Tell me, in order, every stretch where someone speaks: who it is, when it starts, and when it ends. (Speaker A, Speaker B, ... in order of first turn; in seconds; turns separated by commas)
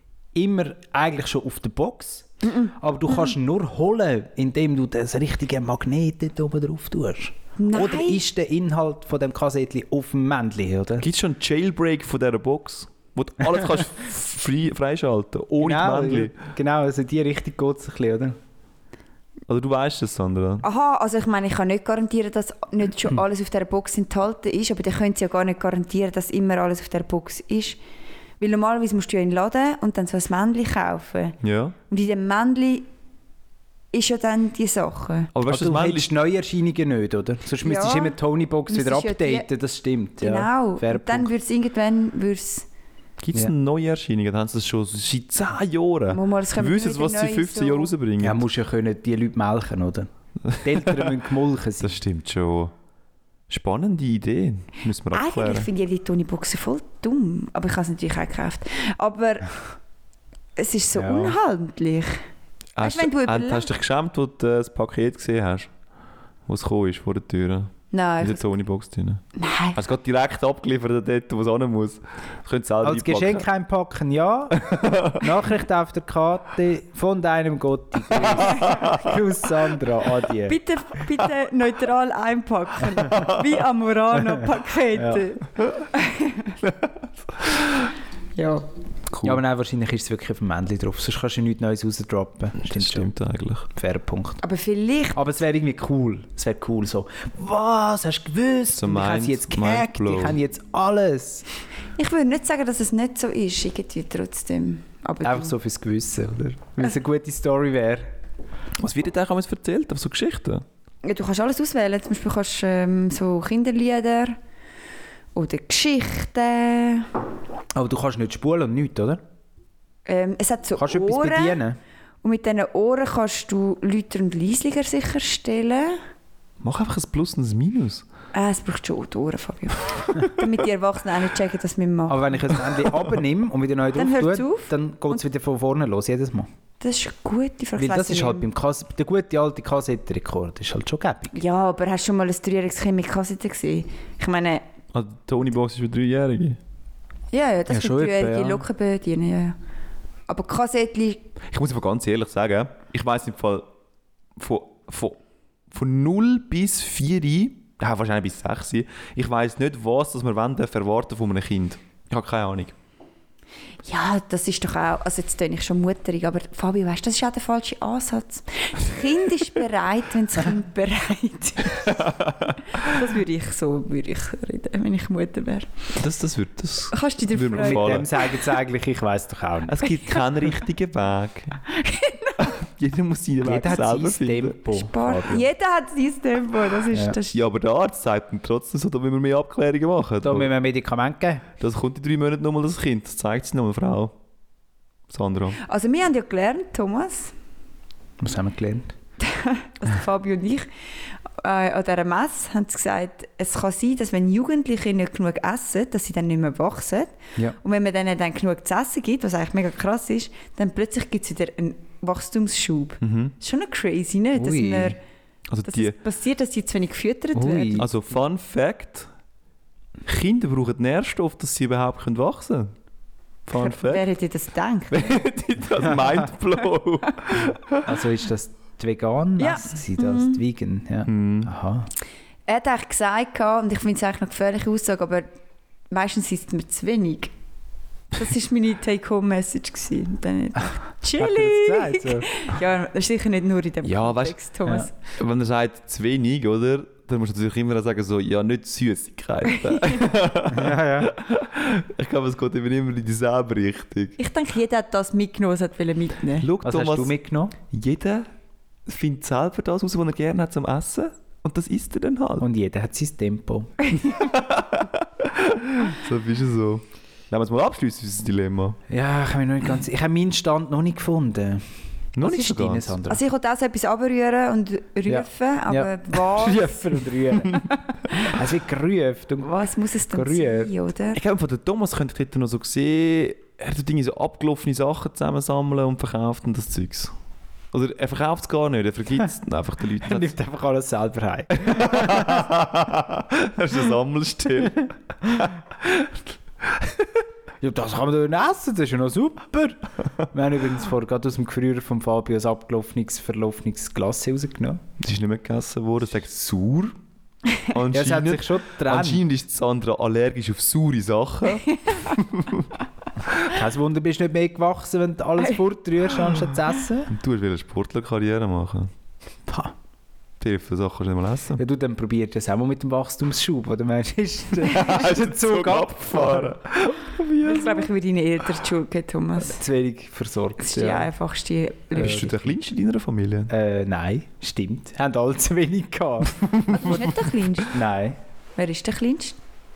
Speaker A: 0.3-11.1, Speaker B: 2.5-2.7, Speaker B: 7.6-8.2, Speaker C: 11.0-16.3, Speaker A: 15.6-18.4, Speaker C: 19.5-20.6, Speaker B: 20.6-27.8, Speaker B: 28.4-31.4, Speaker C: 31.4-31.8, Speaker B: 31.9-32.9, Speaker B: 33.9-35.3, Speaker C: 35.3-36.1, Speaker A: 35.5-41.3, Speaker B: 37.6-38.2, Speaker B: 38.7-39.5, Speaker B: 40.2-42.7, Speaker C: 43.2-48.4, Speaker B: 46.1-47.9, Speaker A: 48.2-52.0, Speaker C: 50.5-51.1, Speaker C: 51.8-52.7, Speaker C: 53.5-55.7, Speaker B: 55.1-59.6, Speaker B: 60.6-62.2, Speaker A: 61.0-61.4, Speaker C: 62.8-65.7, Speaker B: 62.8-63.7, Speaker C: 66.5-69.2, Speaker B: 67.9-68.5, Speaker B: 69.3-69.8, Speaker C: 69.8-73.5, Speaker A: 72.8-80.6, Speaker C: 74.6-75.2, Speaker B: 78.5-78.9, Speaker C: 78.5-79.0, Speaker B: 80.5-86.6, Speaker A: 85.0-85.2, Speaker C: 86.6-87.0, Speaker B: 88.4-88.7, Speaker C: 89.1-89.4, Speaker A: 89.2-93.1, Speaker C: 92.7-93.7, Speaker A: 93.8-94.4, Speaker B: 94.4-95.2, Speaker A: 95.2-101.5, Speaker C: 98.7-100.4, Speaker B: 102.0-105.5, Speaker A: 105.2-108.1, Speaker C: 108.8-110.7, Speaker B: 111.0-114.4, Speaker B: 115.3-117.1, Speaker A: 117.8-119.2, Speaker B: 120.1-121.6, Speaker A: 120.8-121.8, Speaker B: 122.2-126.0, Speaker C: 126.6-128.1, Speaker B: 128.3-132.4, Speaker A: 132.1-136.5, Speaker B: 134.0-135.2, Speaker B: 136.8-138.5, Speaker A: 137.8-141.3, Speaker B: 141.3-144.7, Speaker C: 144.9-146.6, Speaker B: 147.3-149.6, Speaker A: 147.7-148.7, Speaker B: 150.3-151.2, Speaker C: 151.4-153.7, Speaker C: 154.4-155.2, Speaker C: 155.7-162.8, Speaker B: 163.8-172.1, Speaker C: 171.8-172.6, Speaker B: 172.7-175.9, Speaker C: 176.0-178.1, Speaker B: 176.9-178.5, Speaker A: 177.6-179.8, Speaker C: 179.7-181.6, Speaker B: 180.0-180.4, Speaker B: 181.7-182.4, Speaker C: 182.4-184.6, Speaker A: 183.4-185.5, Speaker B: 184.7-187.4, Speaker A: 186.9-187.2, Speaker C: 187.3-190.5, Speaker A: 190.2-191.5, Speaker C: 191.6-194.1, Speaker C: 195.1-195.6, Speaker B: 195.6-197.3, Speaker A: 198.2-198.9, Speaker B: 199.2-200.7, Speaker B: 201.4-215.0, Speaker C: 213.0-213.3, Speaker A: 214.4-215.0, Speaker C: 215.5-216.0, Speaker B: 215.7-217.8, Speaker A: 217.3-217.9, Speaker C: 217.8-219.1, Speaker C: 220.1-222.7, Speaker C: 223.5-224.1, Speaker B: 223.6-225.2, Speaker C: 224.9-227.9, Speaker A: 227.8-231.9, Speaker B: 229.4-230.4, Speaker C: 231.1-231.5, Speaker B: 232.5-235.3, Speaker B: 235.9-237.3, Speaker B: 238.1-244.9, Speaker A: 241.2-242.3, Speaker C: 243.8-244.4, Speaker C: 245.1-254.2, Speaker B: 249.5-250.0, Speaker A: 250.5-251.1, Speaker B: 254.2-256.5, Speaker C: 256.4-257.1, Speaker A: 256.6-257.5, Speaker C: 257.7-258.3, Speaker C: 258.9-262.5, Speaker A: 262.4-263.9, Speaker C: 264.1-268.8, Speaker A: 268.9-273.2, Speaker C: 272.2-273.0, Speaker B: 273.1-278.2, Speaker A: 275.1-280.7, Speaker B: 279.4-281.2, Speaker C: 281.1-287.1, Speaker C: 287.7-290.4, Speaker A: 290.0-292.5, Speaker C: 291.5-297.2, Speaker A: 297.6-304.8, Speaker C: 305.0-306.9, Speaker C: 307.6-312.7, Speaker A: 307.9-309.2, Speaker B: 311.7-312.0, Speaker A: 313.4-317.1, Speaker C: 317.1-318.9, Speaker A: 319.5-319.7, Speaker C: 320.4-321.6, Speaker A: 321.6-326.6, Speaker C: 324.7-327.9, Speaker B: 327.4-329.6, Speaker A: 329.4-331.1, Speaker B: 330.6-332.2, Speaker A: 331.9-332.6, Speaker C: 331.9-333.5, Speaker A: 333.5-337.0, Speaker C: 336.5-337.0, Speaker B: 336.7-337.8, Speaker A: 337.7-338.2, Speaker B: 338.6-339.4